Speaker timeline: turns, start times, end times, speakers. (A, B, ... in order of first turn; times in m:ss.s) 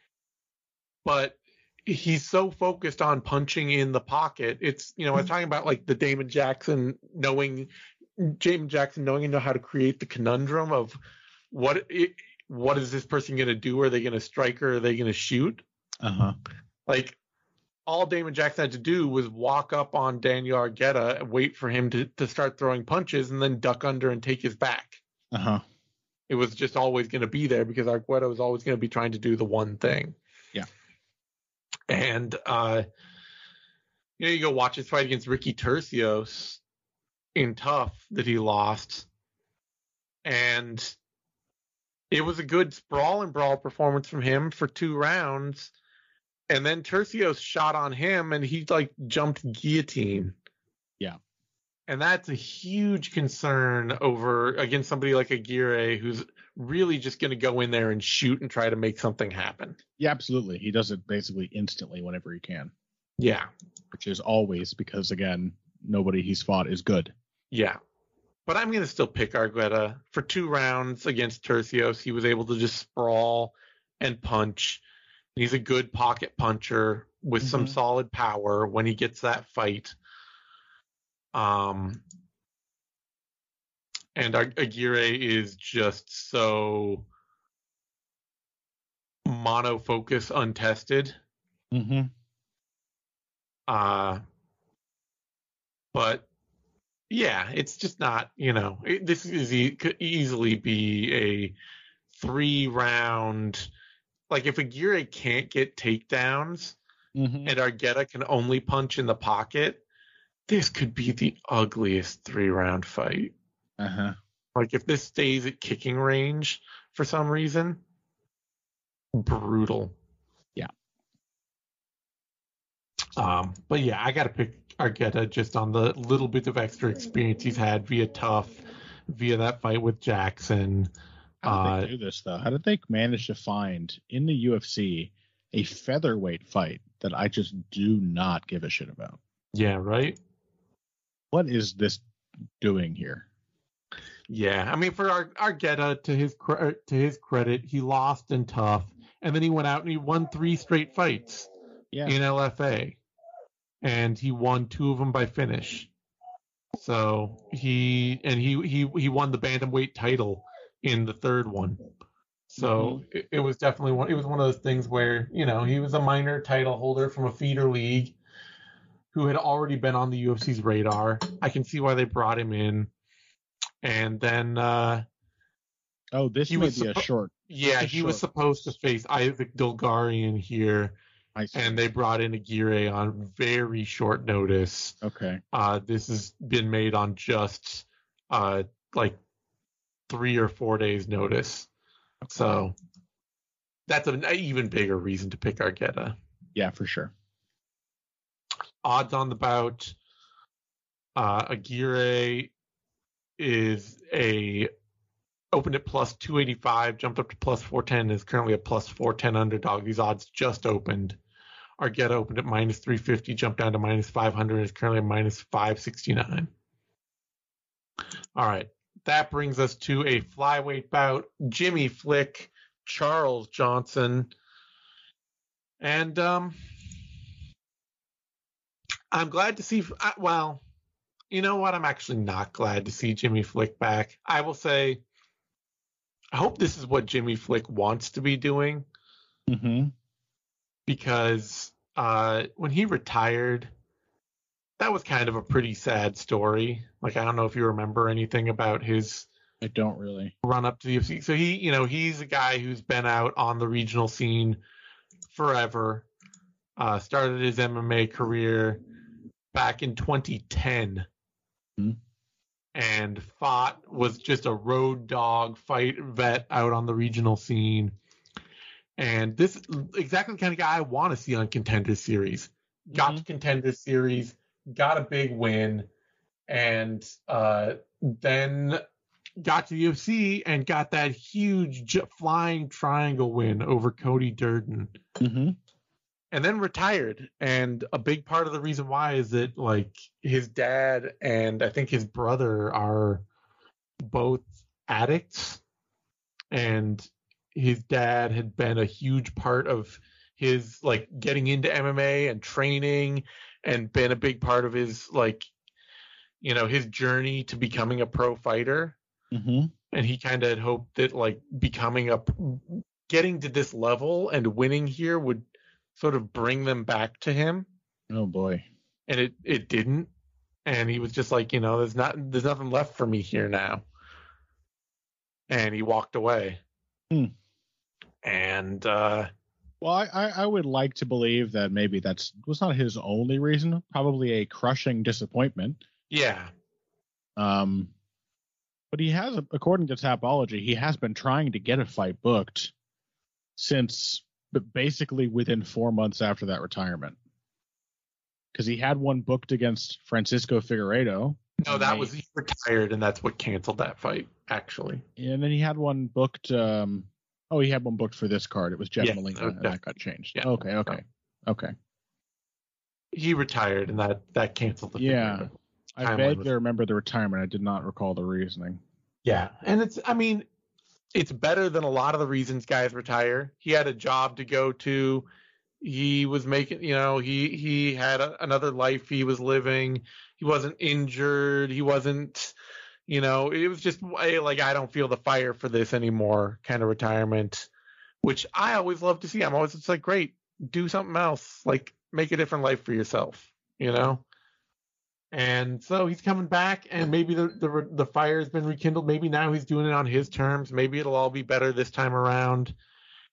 0:01.0-0:11.0 A
0:11.5-0:15.6 A
0:16.0-0:16.4 B
0:16.9-0:17.2 A
0:17.9-0:25.0 A
0:25.3-0:25.6 B
0:26.3-0:30.2 A
0:31.9-0:32.8 A
0:34.2-0:36.6 A
0:37.4-0:39.1 A
0:40.2-0:41.0 A
0:42.1-0:45.7 A
0:46.5-0:50.4 A
0:51.9-0:59.8 A
1:00.0-1:02.7 B
1:03.2-1:03.5 A
1:03.9-1:07.1 B
1:07.5-1:07.8 A
1:08.5-1:14.8 A
1:15.4-1:20.0 A
1:17.4-1:17.8 B
1:21.3-1:22.0 A
1:24.2-1:27.1 A
1:29.3-1:31.2 A
1:31.7-1:32.1 B
1:33.7-1:34.2 A
1:35.9-1:36.3 A
1:37.1-1:41.6 A
1:42.1-1:43.7 A
1:44.3-1:46.8 A
1:47.2-1:47.5 B
1:47.4-1:49.8 A
1:50.5-1:53.3 A
1:53.8-1:54.2 B
1:54.6-1:57.8 A
1:59.1-2:00.0 A
2:03.2-2:08.6 A
2:09.1-2:10.9 A
2:11.4-2:11.9 A
2:11.4-2:19.2 B
2:19.5-2:20.2 A
2:21.3-2:22.0 B
2:22.6-2:23.3 B
2:24.3-2:31.5 A
2:31.9-2:32.2 B
2:32.0-2:33.0 A
2:33.8-2:35.9 A
2:36.8-2:41.8 A
2:42.5-2:48.2 A
2:42.6-2:43.0 B
2:49.1-2:52.9 A
2:53.8-2:55.0 A
2:56.1-2:58.7 B
2:56.5-3:01.0 A
3:01.4-3:01.8 B
3:01.5-3:05.0 A
3:05.0-3:05.4 B
3:05.5-3:09.2 A
3:10.1-3:11.7 A
3:12.2-3:12.6 B
3:12.3-3:12.7 A
3:13.9-3:16.2 A
3:16.6-3:17.1 B
3:18.8-3:20.0 A
3:21.2-3:22.5 A
3:23.4-3:24.7 A
3:25.5-3:31.2 A
3:31.8-3:36.5 A
3:38.4-3:44.3 A
3:45.8-3:46.6 A
3:49.1-3:50.6 A
3:51.3-3:55.0 A
3:56.3-3:58.8 A
3:59.5-3:59.9 B
4:00.9-4:03.7 A
4:04.8-4:09.3 A
4:09.6-4:10.3 B
4:10.4-4:14.6 A
4:15.3-4:16.1 A
4:16.8-4:18.8 A
4:19.5-4:21.1 A
4:22.8-4:27.9 A
4:29.0-4:35.9 A
4:32.9-4:33.2 B
4:36.5-4:38.8 A
4:39.4-4:45.0 A
4:45.2-4:45.6 B
4:46.3-4:53.2 A
4:54.0-4:55.6 A
4:56.5-5:05.5 A
5:06.4-5:09.0 A
5:09.3-5:09.7 B
5:09.9-5:15.4 A
5:16.0-5:17.7 A
5:18.1-5:18.7 B
5:19.1-5:20.1 A
5:20.7-5:23.8 A
5:25.5-5:26.6 A
5:28.2-5:29.3 A
5:29.8-5:35.8 B
5:36.1-5:36.5 A
5:37.4-5:37.9 B
5:38.9-5:42.7 B
5:43.6-5:47.2 B
5:48.5-5:52.1 B
5:51.6-5:55.0 A
5:55.2-6:01.7 B
5:59.0-5:59.8 A
6:00.4-6:01.0 A
6:03.1-6:06.5 A
6:05.0-6:08.8 B
6:09.2-6:10.5 A
6:11.1-6:15.3 A
6:15.8-6:22.6 A
6:23.1-6:27.7 A
6:28.2-6:34.2 A
6:35.3-6:42.7 A